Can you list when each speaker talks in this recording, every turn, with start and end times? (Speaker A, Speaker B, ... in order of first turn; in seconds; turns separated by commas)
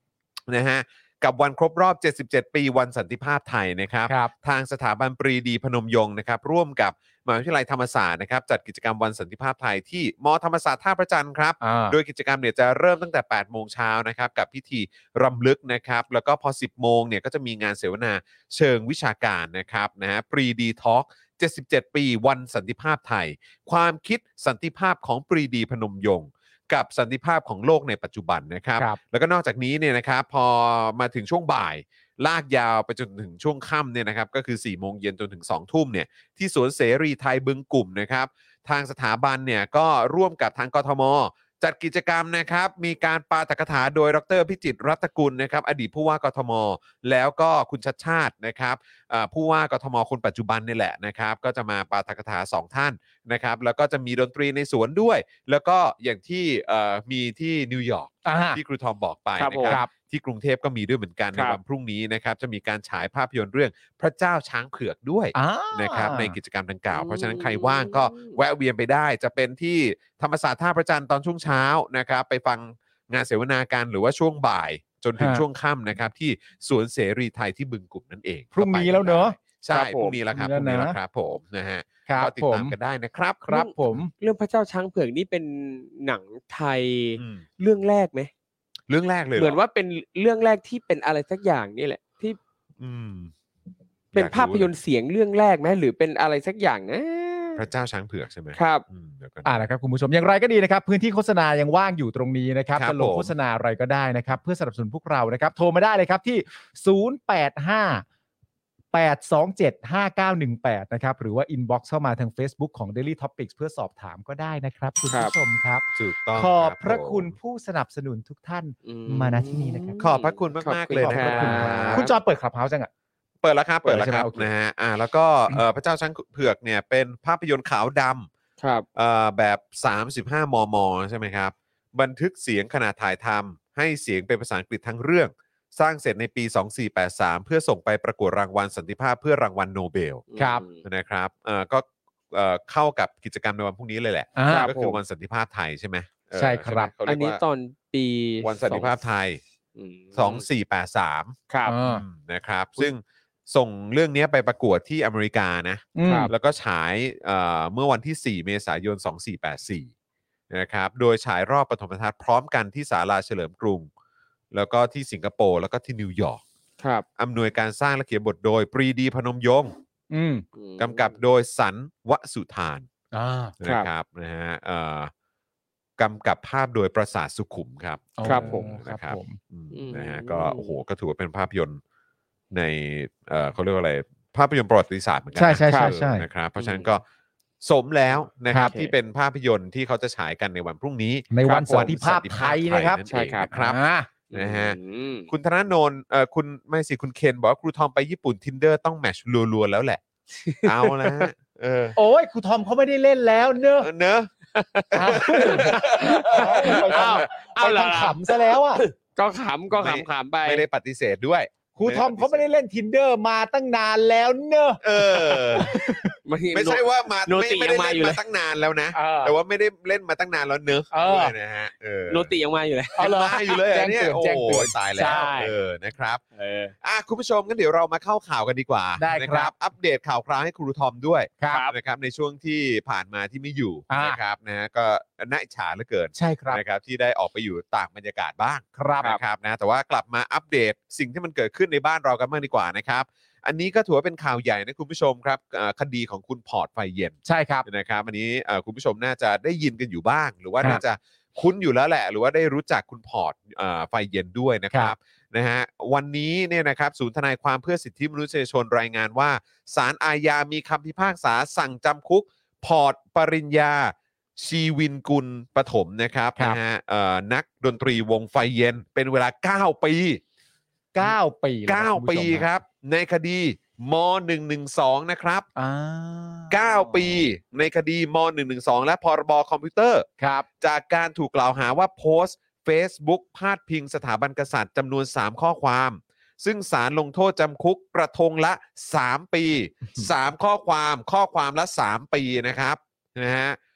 Speaker A: 0.5-83.5, Speaker B: 4.1-4.3, Speaker B: 11.6-12.0, Speaker B: 58.2-58.6, Speaker C: 59.4-59.8, Speaker B: 65.3-66.4, Speaker C: 66.9-68.4, Speaker B: 75.2-75.4, Speaker B: 78.5-79.4, Speaker C: 79.7-80.2, Speaker B: 80.3-81.0, Speaker B: 82.1-82.8, Speaker B: 83.4-84.1, Speaker C: 83.5-88.3, Speaker A: 87.2-87.4, Speaker A: 88.9-89.6, Speaker C: 89.4-92.4, Speaker A: 92.8-93.3, Speaker C: 94.1-97.7, Speaker A: 94.1-94.7, Speaker A: 97.6-99.6, Speaker C: 98.5-98.8, Speaker B: 99.4-108.0, Speaker A: 102.8-103.3, Speaker B: 108.9-120.0, Speaker A: 116.0-117.3, Speaker C: 118.8-122.1, Speaker A: 120.0-122.1, Speaker B: 121.0-122.9, Speaker A: 123.4-128.3, Speaker B: 123.8-124.5, Speaker C: 128.6-128.9, Speaker A: 128.9-140.2, Speaker C: 140.3-140.8, Speaker B: 140.4-140.6, Speaker A: 140.8-147.4, Speaker B: 144.4-144.7, Speaker C: 144.5-145.0, Speaker B: 146.3-146.9, Speaker C: 147.1-148.9, Speaker A: 148.4-149.4, Speaker C: 149.8-150.5, Speaker A: 150.2-159.9, Speaker C: 151.5-151.8, Speaker B: 151.7-152.0, Speaker B: 155.9-156.3, Speaker C: 156.0-156.3, Speaker A: 160.5-163.9, Speaker A: 164.5-166.4, Speaker C: 166.8-167.1, Speaker A: 167.2-169.8, Speaker B: 170.1-170.4, Speaker C: 170.6-171.2, Speaker A: 170.8-172.9, Speaker B: 173.1-173.5, Speaker A: 173.6-175.1, Speaker A: 176.0-181.8, Speaker B: 178.2-179.4, Speaker C: 178.2-178.7, Speaker C: 179.7-180.7, Speaker A: 182.5-187.0, Speaker B: 185.4-186.3, Speaker C: 185.7-185.9, Speaker C: 186.6-186.9, Speaker A: 187.6-193.8, Speaker C: 188.6-188.9, Speaker B: 191.3-194.1, Speaker C: 193.1-193.5, Speaker C: 194.3-195.3, Speaker A: 194.3-194.8, Speaker A: 195.3-200.0, Speaker C: 200.4-201.3, Speaker A: 200.6-202.0, Speaker B: 202.0-203.9, Speaker A: 203.8-204.3, Speaker C: 204.5-210.6, Speaker A: 204.9-207.2, Speaker B: 204.9-208.8, Speaker A: 209.7-212.5, Speaker B: 211.8-216.1, Speaker A: 214.8-215.7, Speaker C: 215.6-218.2, Speaker A: 216.5-222.3, Speaker B: 218.9-219.4, Speaker B: 220.9-221.4, Speaker C: 222.1-223.6, Speaker B: 223.0-225.3, Speaker A: 223.0-226.2, Speaker C: 225.0-225.5, Speaker C: 226.4-226.7, Speaker A: 226.8-270.2, Speaker B: 229.0-229.5, Speaker B: 233.9-234.2, Speaker B: 236.2-236.6, Speaker B: 238.8-239.1, Speaker B: 247.3-247.7, Speaker B: 270.9-272.5, Speaker A: 271.0-275.5, Speaker B: 275.6-277.1, Speaker A: 276.5-280.1, Speaker B: 280.2-280.5, Speaker A: 280.6-293.6